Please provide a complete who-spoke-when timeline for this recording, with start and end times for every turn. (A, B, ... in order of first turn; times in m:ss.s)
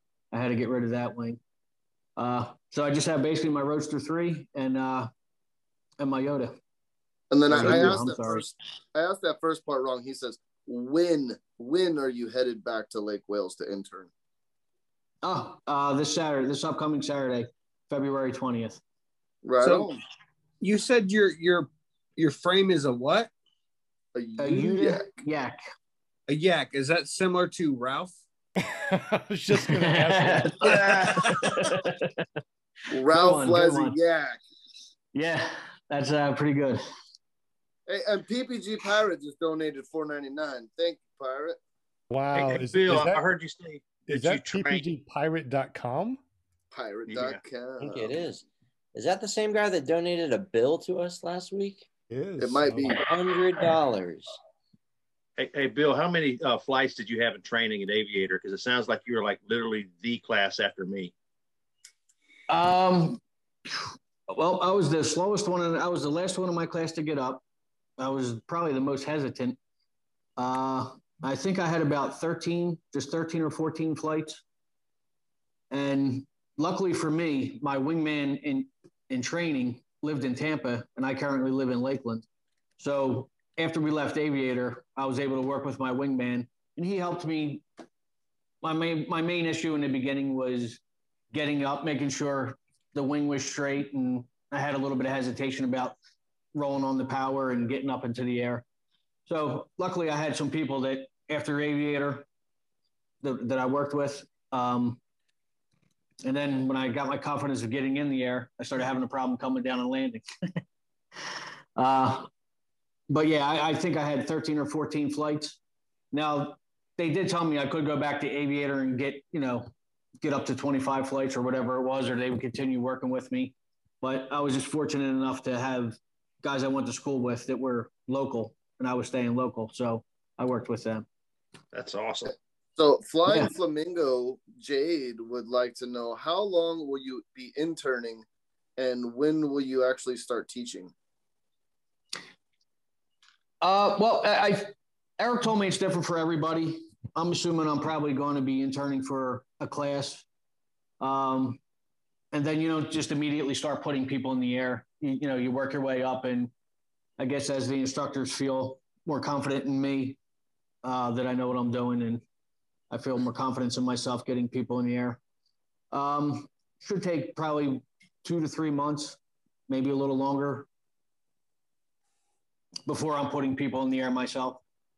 0:00.3-0:01.4 A
0:02.2-0:05.1 A
0:06.0-0:06.6 A
0:07.3-0:14.1 B
0:07.5-0:08.4 A
0:15.2-0:18.8 A
0:19.4-0:20.0 B
0:19.6-0:19.9 C
0:20.6-0:23.3 C
0:24.2-0:25.1 B
0:24.4-0:25.6 A
0:26.3-0:28.2 C
0:28.7-0:31.1 D
0:29.6-0:32.1 A
0:30.6-0:31.4 C
0:32.9-0:34.4 B
0:33.1-0:34.0 A
0:35.1-0:36.8 A
0:37.9-0:41.6 B
0:42.1-0:43.2 D
0:42.3-0:44.8 E
0:44.1-0:46.2 D
0:46.7-0:48.2 B
0:47.1-0:47.4 E
0:47.8-0:51.9 F
0:52.1-0:53.0 D
0:52.4-0:53.0 B
0:53.0-0:54.4 F
0:55.4-1:01.1 E
1:02.5-1:03.2 A
1:04.3-1:07.4 A
1:08.0-1:09.6 A
1:10.4-1:14.4 A
1:15.7-1:22.3 A
1:22.8-1:27.6 A
1:28.6-1:30.8 A
1:31.3-1:36.0 A
1:36.5-1:38.6 A
1:39.3-1:42.3 A
1:43.2-1:45.0 A
1:46.2-1:50.2 A
1:51.8-1:52.3 A
1:53.1-1:55.6 A
1:56.1-2:11.1 A
2:11.7-2:12.3 E
2:12.8-2:18.3 B
2:18.8-2:20.9 B
2:23.6-2:30.3 A
2:31.0-2:31.6 A
2:32.3-2:36.5 A
2:37.2-2:40.2 A
2:40.8-2:42.2 A
2:42.9-2:45.2 A
2:45.9-2:49.2 A
2:49.7-2:50.7 A
2:52.9-2:54.6 A